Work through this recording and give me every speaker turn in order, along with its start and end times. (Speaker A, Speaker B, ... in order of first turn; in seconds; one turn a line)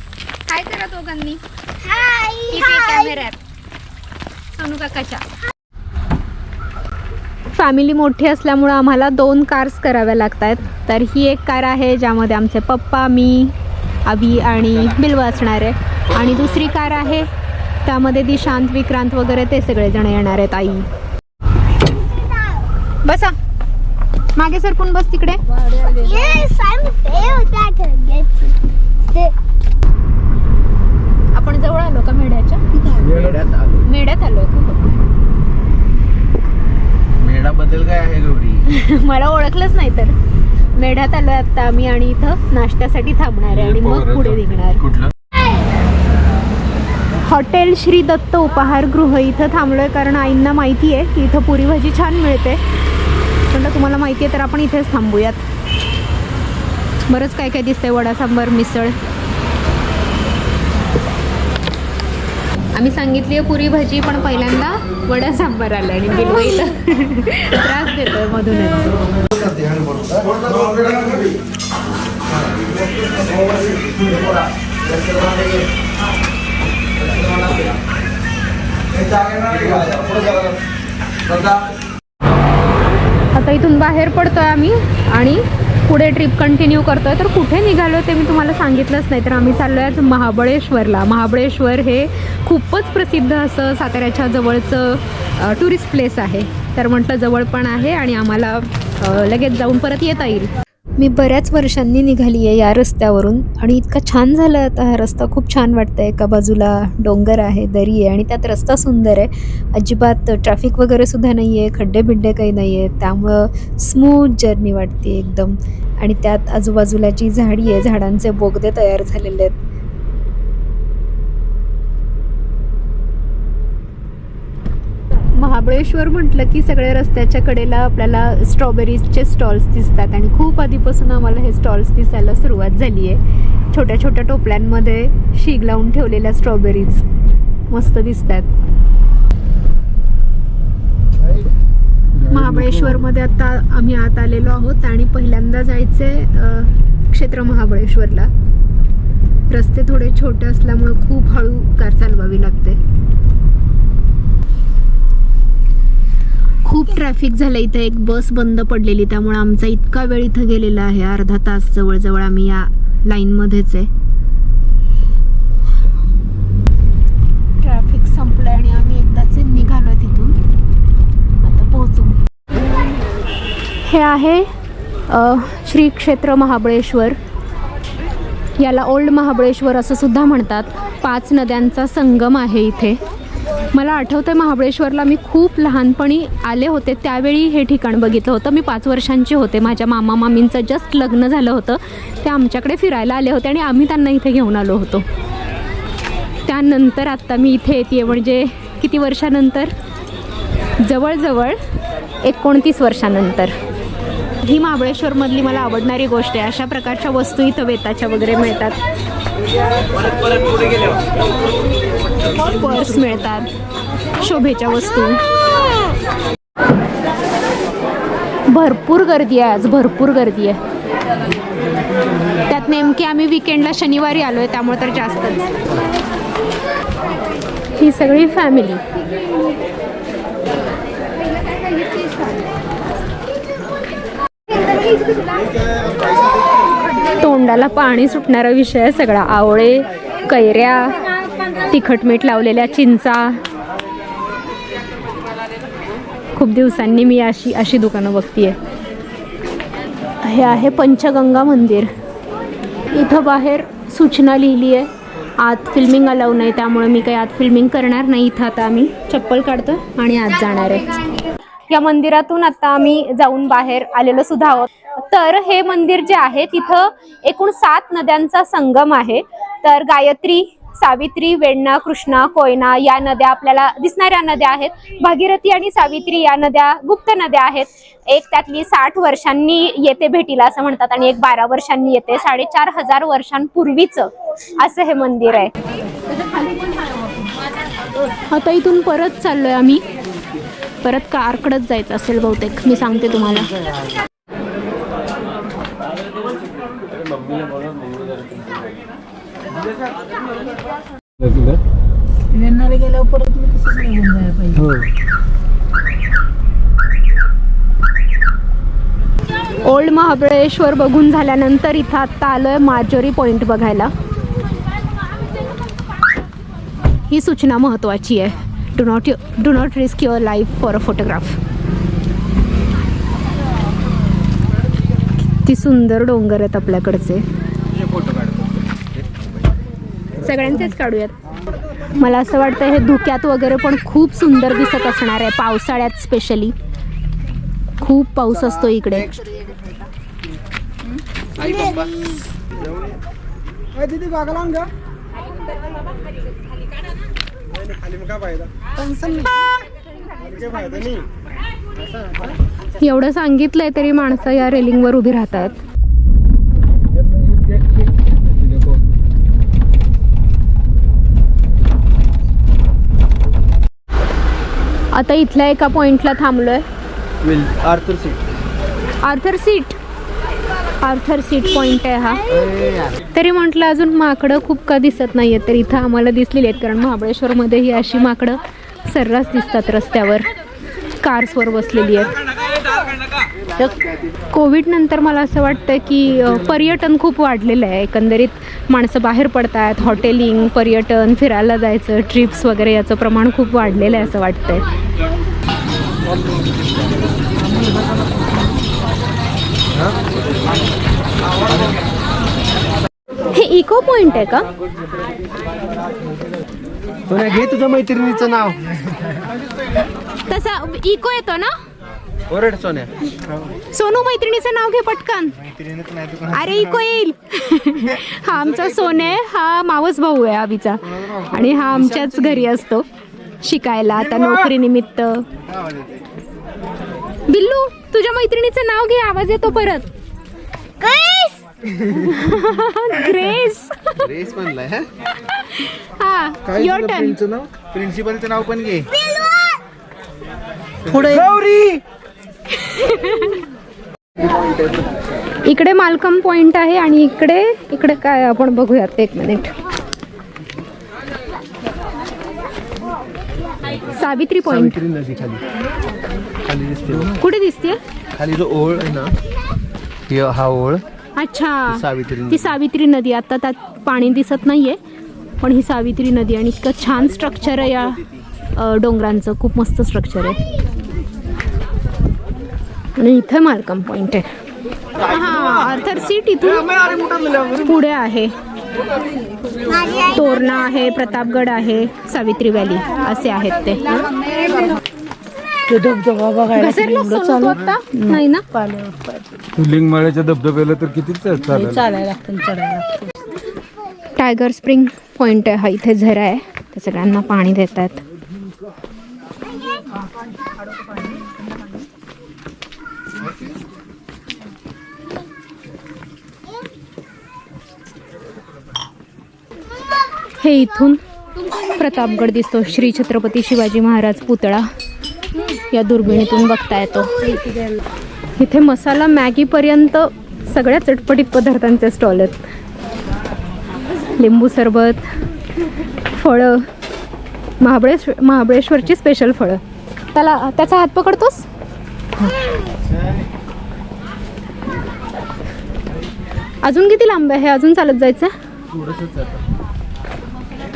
Speaker A: 0.5-1.4
Speaker B: 1.8-3.0
Speaker A: 2.5-3.4
Speaker A: 4.5-5.3
Speaker A: 7.5-13.5
Speaker A: 14.1-17.3
Speaker A: 17.9-20.9
Speaker A: 23.0-23.4
Speaker A: 24.4-26.4
Speaker B: 25.6-28.5
Speaker A: 31.3-33.0
Speaker C: 33.0-33.9
Speaker A: 33.9-34.9
Speaker C: 37.2-38.7
Speaker A: 38.7-40.2
Speaker A: 40.8-44.9
Speaker D: 43.5-44.3
Speaker C: 44.9-45.1
Speaker A: 47.2-52.6
Speaker A: 53.5-55.4
Speaker A: 57.1-59.0
Speaker A: 62.7-69.0
Speaker C: 69.2-71.2
Speaker C: 75.0-75.5
Speaker C: 79.2-80.3
Speaker A: 83.3-119.6
Speaker A: 125.4-137.1
Speaker A: 137.7-138.5
Speaker A: 142.3-148.3
Speaker A: 149.5-152.8
Speaker A: 156.7-163.9
Speaker A: 167.6-170.4
Speaker A: 171.4-172.2
Speaker A: 173.8-174.5
Speaker A: 175.1-177.2
Speaker A: 178.6-183.0
Speaker A: 183.7-195.1
Speaker A: 196.5-199.7
Speaker A: 200.8-201.6
Speaker A: 202.2-203.5
Speaker A: 204.4-208.8
Speaker A: 212.3-213.5
Speaker A: 214.2-215.2
Speaker A: 218.5-220.6
Speaker A: 222.5-225.5
Speaker A: 227.8-228.8
Speaker A: 237.2-241.0
Speaker A: 241.7-243.4
Speaker A: 246.4-248.6
Speaker A: 250.2-251.9
Speaker A: 252.9-285.5
Speaker A: 288.3-289.8
Speaker A: 290.8-293.6
Speaker D: 301.2-301.6
Speaker E: 302.3-304.3
Speaker D: 304.6-304.9
Speaker A: 309.6-313.9
Speaker A: 317.1-321.4
Speaker A: 325.4-327.2
Speaker C: 327.8-329.3
Speaker A: 330.2-331.2
Speaker A: 332.0-336.6
Speaker A: 337.8-339.2
Speaker C: 341.4-341.8
Speaker A: 352.8-355.6
Speaker D: 357.1-357.6
Speaker A: 364.9-366.6
Speaker C: 367.2-368.2
Speaker A: 369.0-369.8
Speaker A: 370.8-372.2
Speaker C: 372.3-373.0
Speaker A: 373.1-380.3
Speaker A: 381.0-382.1
Speaker A: 384.3-394.7
Speaker C: 401.5-401.8
Speaker A: 403.3-404.5
Speaker C: 407.1-408.8
Speaker A: 410.3-411.5
Speaker C: 412.3-412.9
Speaker A: 413.7-415.4
Speaker C: 415.7-416.2
Speaker A: 416.2-422.9
Speaker A: 423.4-425.3
Speaker C: 425.5-426.0
Speaker A: 427.3-429.9
Speaker B: 430.8-431.4
Speaker A: 431.9-434.0
Speaker C: 434.0-434.9
Speaker A: 435.3-437.2
Speaker C: 437.1-438.9
Speaker C: 440.9-441.8
Speaker A: 442.5-443.4
Speaker A: 445.4-449.5
Speaker C: 453.6-455.4
Speaker A: 453.9-454.8
Speaker C: 456.4-457.2
Speaker A: 457.2-457.8
Speaker C: 458.1-459.1
Speaker C: 460.1-460.8
Speaker A: 461.2-464.8
Speaker C: 461.7-462.6
Speaker A: 465.4-468.0
Speaker A: 468.6-470.4
Speaker A: 473.0-474.3
Speaker A: 475.0-478.3
Speaker A: 479.9-484.1
Speaker E: 485.7-486.4
Speaker A: 486.5-488.5
Speaker D: 489.6-492.3
Speaker E: 491.9-493.0
Speaker A: 494.2-498.0
Speaker A: 510.4-511.0
Speaker A: 511.7-514.7
Speaker A: 515.5-517.3
Speaker A: 518.4-522.4
Speaker A: 524.2-525.1
Speaker A: 526.1-526.7
Speaker A: 527.6-529.6
Speaker A: 530.1-531.5
Speaker A: 536.6-538.3
Speaker C: 538.7-539.4